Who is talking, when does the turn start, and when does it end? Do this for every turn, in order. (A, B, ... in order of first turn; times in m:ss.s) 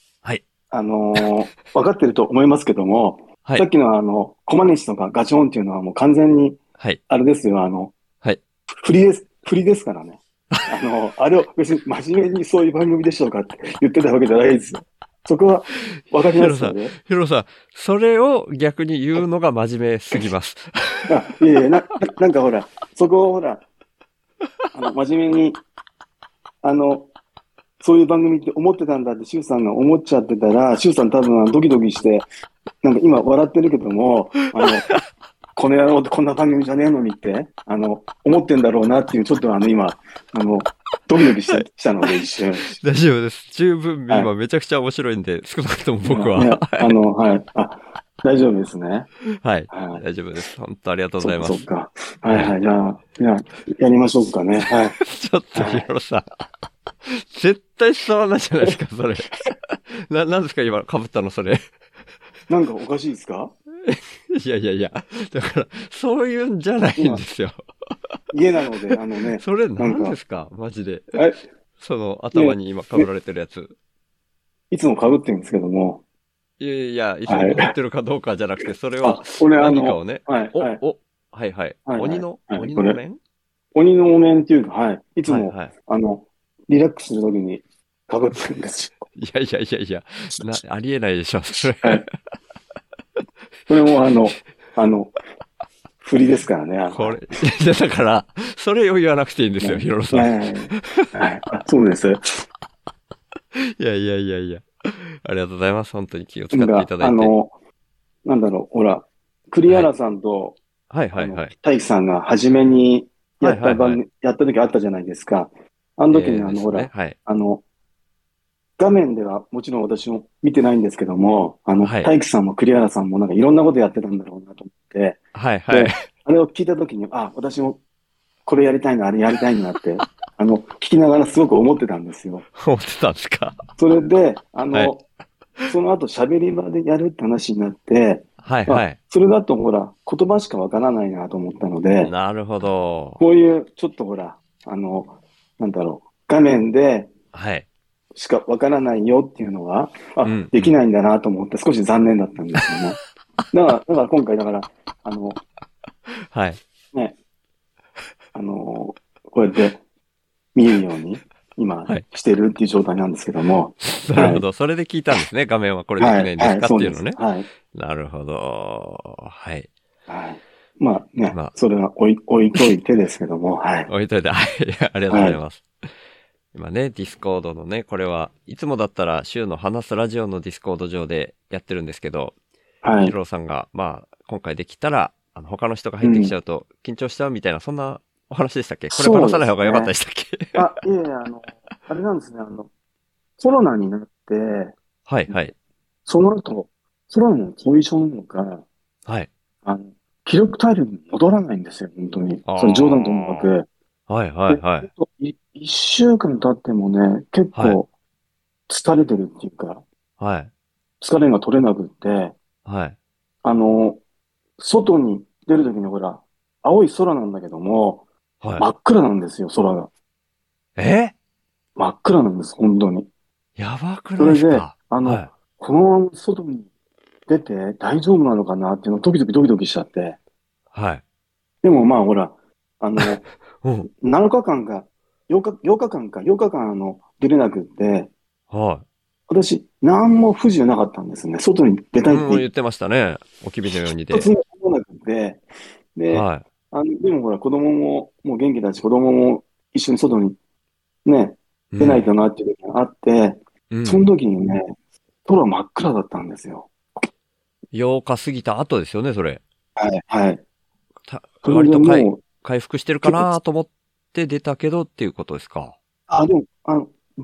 0:00.7-0:08.0 A
0:08.8-0:16.9 A
0:16.3-0:21.1 B
0:21.1-0:23.6 A
0:24.7-0:25.6 A
0:26.6-0:27.1 A
0:27.8-0:32.3 A
0:32.8-0:34.9 A
0:34.6-0:35.0 B
0:35.6-0:42.8 A
0:42.7-0:46.9 B
0:46.1-0:49.1 A
0:49.4-0:51.6 B
0:49.7-0:50.0 A
0:51.2-0:55.0 A
0:52.2-0:52.5 B
0:54.9-0:56.2 B
0:55.5-0:55.9 A
0:57.0-1:01.6 B
1:02.5-1:03.5 A
1:03.8-1:07.6 B
1:07.0-1:07.2 A
1:08.3-1:10.2 A
1:09.4-1:11.1 B
1:11.1-1:11.4 A
1:11.8-1:13.7 B
1:12.3-1:13.1 A
1:14.7-1:16.0 A
1:16.6-1:23.2 B
1:17.3-1:17.7 A
1:19.0-1:20.8 A
1:21.8-1:23.0 A
1:23.7-1:29.1 A
1:25.3-1:25.7 B
1:29.2-1:32.1 B
1:33.7-1:35.1 A
1:36.0-1:37.2 A
1:36.9-1:41.1 B
1:39.6-1:42.4 A
1:43.5-1:47.3 B
1:46.5-1:47.5 A
1:48.2-1:50.6 A
1:50.9-1:51.5 B
1:51.2-1:57.6 A
1:53.4-1:54.0 B
1:56.1-1:57.2 B
1:58.8-2:07.8 A
2:01.8-2:02.1 B
2:05.3-2:05.9 B
2:08.4-2:12.4 A
2:12.5-2:13.6 B
2:13.8-2:15.0 A
2:15.7-2:22.1 A
2:18.4-2:19.0 B
2:22.0-2:23.2 B
2:23.2-2:27.1 A
2:27.3-2:27.6 B
2:28.1-2:33.0 A
2:30.2-2:30.8 B
2:33.5-2:35.4 A
2:36.3-2:36.6 B
2:38.3-2:39.8 A
2:40.5-2:44.4 A
2:43.9-2:47.2 B
2:46.0-2:47.5 A
2:47.7-2:49.7 B
2:50.1-2:53.9 A
2:53.9-2:55.6 B
2:55.1-2:55.4 A
2:56.5-3:02.3 B
3:02.8-3:03.1 A
3:03.0-3:10.6 B
3:06.0-3:06.3 A
3:08.9-3:09.9 A
3:10.5-3:12.7 A
3:13.4-3:14.7 A
3:15.0-3:15.5 B
3:16.0-3:18.6 A
3:19.6-3:23.7 A
3:22.4-3:23.5 B
3:24.1-3:24.9 B
3:24.5-3:27.9 A
3:28.7-3:29.8 A
3:30.2-3:30.5 B
3:31.0-3:32.3 A
3:32.6-3:33.0 B
3:33.4-3:34.0 A
3:34.6-3:38.0 A
3:38.4-3:38.6 B
3:38.6-3:39.9 A
3:40.8-3:41.1 B
3:41.8-3:43.1 A
3:43.6-3:45.3 B
3:44.2-3:46.7 A
3:47.3-3:50.2 A
3:50.7-3:51.0 B
3:51.6-3:53.2 A
3:53.6-3:53.9 B
3:54.0-3:58.1 A
3:58.5-3:58.8 B
3:59.3-4:02.5 A
4:02.1-4:04.3 B
4:03.6-4:05.4 A
4:05.9-4:10.4 A
4:06.1-4:06.4 B
4:11.0-4:14.7 A
4:11.7-4:12.1 B
4:13.7-4:14.0 B
4:15.2-4:16.7 A
4:17.7-4:19.4 B
4:19.8-4:20.4 A
4:21.0-4:25.8 B
4:21.4-4:22.2 A
4:23.0-4:23.3 A
4:26.1-4:26.9 A